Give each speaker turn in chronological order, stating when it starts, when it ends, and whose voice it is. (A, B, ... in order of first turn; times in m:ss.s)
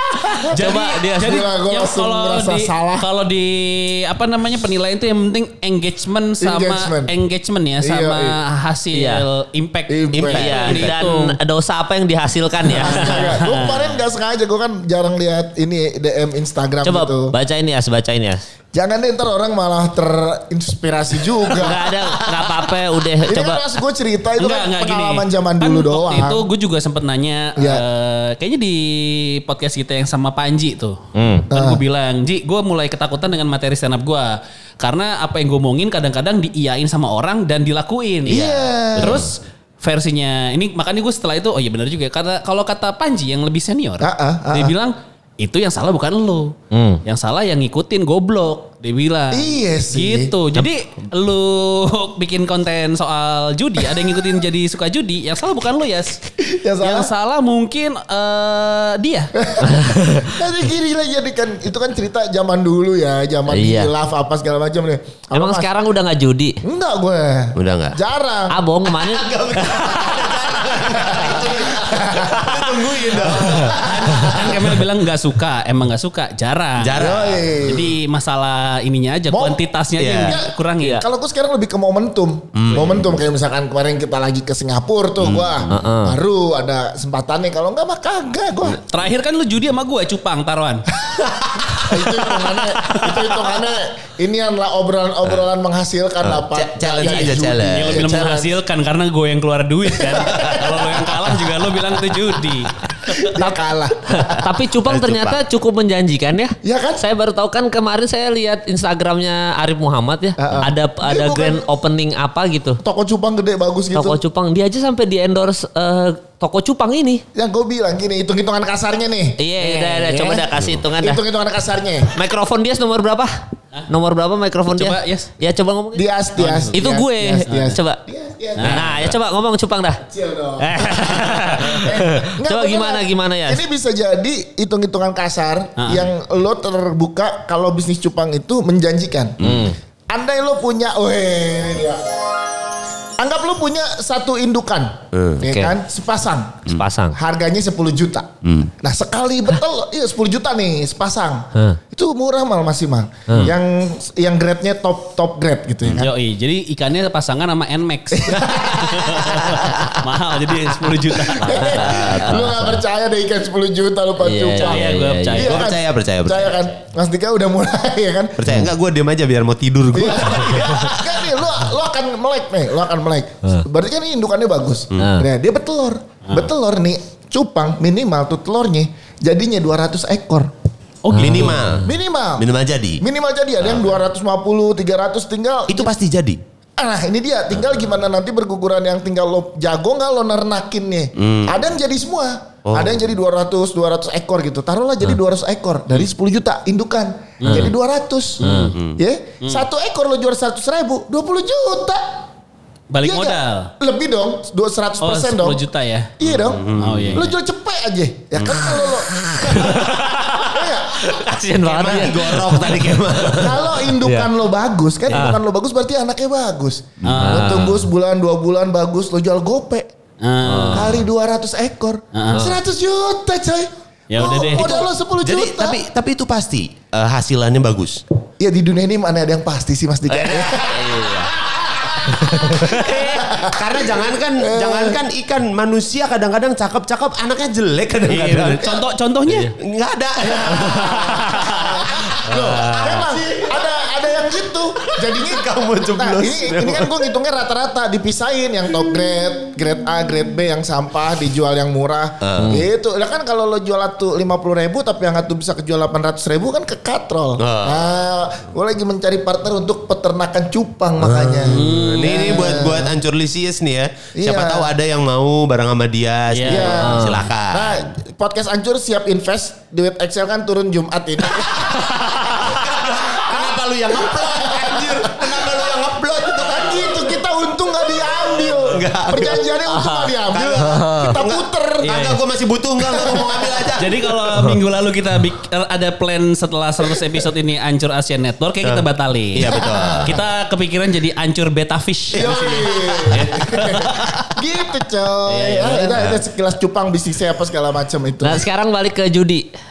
0:00.2-0:00.6 A
0:00.5-0:11.4 B
0:00.6-0:01.0 C
0:01.2-0:03.1 A
0:06.4-0:07.1 A
0:07.8-0:08.4 A
0:08.9-0:09.2 C
0:09.9-0:10.5 A
0:10.1-0:11.1 D
0:10.3-0:13.4 C
0:12.7-0:17.3 A
0:12.9-0:13.8 B
0:16.8-0:18.4 C
0:18.7-0:21.9 A
0:21.6-0:23.6 C
0:23.3-0:26.4 A
0:24.4-0:31.0 B
0:27.6-0:27.8 A
0:31.2-0:31.5 C
0:31.5-0:31.8 A
0:31.5-0:56.2 B
0:38.3-0:39.2 A
0:38.3-0:39.2 D
0:44.0-0:44.7 A
0:46.7-0:47.0 C
0:49.3-0:50.3 A
0:56.4-0:57.1 A
0:56.8-0:59.3 B
0:59.4-0:59.7 A
0:59.6-1:00.4 C
1:00.2-1:05.7 A
1:03.5-1:03.9 C
1:05.3-1:06.6 C
1:06.6-1:08.6 A
1:07.6-1:08.0 D
1:08.5-1:10.1 C
1:08.9-1:14.7 D
1:10.8-1:14.3 A
1:13.7-1:17.0 B
1:16.8-1:17.6 D
1:17.0-1:17.9 A
1:17.6-1:21.0 B
1:19.3-1:19.6 A
1:20.0-1:20.4 D
1:20.3-1:28.8 A
1:20.8-1:21.1 C
1:22.5-1:23.1 D
1:25.2-1:25.9 D
1:25.7-1:26.2 C
1:28.8-1:30.8 B
1:31.2-1:31.7 D
1:31.7-1:38.2 A
1:36.2-1:38.5 D
1:37.0-1:43.4 B
1:39.9-1:40.9 A
1:43.2-1:44.5 A
1:44.1-1:52.8 C
1:44.8-1:45.4 D
1:46.6-1:47.0 A
1:50.4-1:51.7 A
1:52.8-1:54.2 A
1:53.9-1:57.2 C
1:57.4-2:00.4 A
1:59.4-2:01.2 C
2:00.6-2:00.8 D
2:01.0-2:02.1 A
2:02.1-2:03.3 C
2:03.9-2:06.1 C
2:04.7-2:05.3 B
2:06.0-2:08.7 A
2:06.4-2:06.7 B
2:06.7-2:08.0 C
2:07.5-2:07.8 B
2:08.6-2:09.1 B
2:08.6-2:10.0 C
2:08.7-2:09.1 D
2:10.1-2:19.4 A
2:10.6-2:13.6 C
2:15.8-2:16.1 B
2:19.4-2:19.7 D
2:19.4-2:19.8 C
2:20.1-2:22.0 A
2:23.2-2:26.6 A
2:25.1-2:25.6 D
2:25.5-2:25.7 C
2:26.7-2:27.2 C
2:27.2-2:28.3 A
2:28.4-2:28.7 D
2:28.8-2:36.1 A
2:33.3-2:33.5 C
2:36.0-2:42.4 B
2:38.2-2:39.7 A
2:41.2-2:44.9 A
2:41.5-2:42.8 C
2:44.2-2:45.5 C
2:44.6-2:45.6 B
2:45.3-2:46.7 D
2:45.4-2:48.4 A
2:48.4-2:51.1 D
2:49.9-3:00.5 A
2:55.0-2:55.3 C
3:01.0-3:01.7 B
3:01.1-3:01.7 C
3:01.1-3:03.0 D
3:01.8-3:02.4 A
3:03.0-3:05.9 A
3:03.6-3:04.0 D
3:05.7-3:06.4 D
3:06.8-3:18.4 A
3:11.2-3:11.6 D
3:12.6-3:13.1 D
3:17.4-3:17.7 B
3:18.4-3:18.8 B
3:18.4-3:18.7 C
3:18.5-3:19.0 D
3:19.0-3:22.0 A
3:22.9-3:23.7 B
3:23.0-3:25.6 A
3:25.0-3:26.1 B
3:26.2-3:29.8 A
3:26.2-3:27.2 D
3:26.8-3:27.3 B
3:28.4-3:34.3 C
3:30.4-3:31.1 A
3:31.6-3:33.7 D
3:31.7-3:32.0 A
3:33.3-3:39.9 A
3:35.1-3:35.4 C
3:37.0-3:37.3 D
3:37.0-3:37.6 B
3:37.1-3:37.8 C
3:40.2-3:40.9 B
3:40.4-3:41.0 C
3:40.7-3:45.8 A
3:42.1-3:42.5 B
3:42.3-3:42.6 C
3:44.1-3:44.7 B
3:44.3-3:48.0 D
3:48.4-3:53.9 A
3:50.1-3:51.4 C
3:52.3-3:52.6 C
3:52.4-3:58.7 D
3:54.4-3:55.0 A
3:58.1-3:59.5 B
3:59.3-3:59.5 C
3:59.6-4:03.8 D
4:00.2-4:22.9 A
4:02.3-4:02.6 C
4:04.8-4:07.0 D
4:12.2-4:12.6 D
4:17.4-4:17.9 D
4:21.0-4:27.9 D
4:21.5-4:22.5 B
4:24.2-4:24.7 A
4:26.3-4:27.0 B
4:26.5-4:33.5 A
4:26.9-4:27.2 C
4:32.2-4:37.2 D
4:34.0-4:41.9 A
4:38.0-4:39.5 D
4:39.8-4:40.1 C
4:40.3-4:44.6 D
4:41.8-4:42.2 B
4:43.8-4:54.3 B
4:48.6-4:50.2 D
4:49.6-4:50.1 A
4:52.1-4:58.4 A
4:55.3-4:56.1 B
4:58.2-4:59.5 C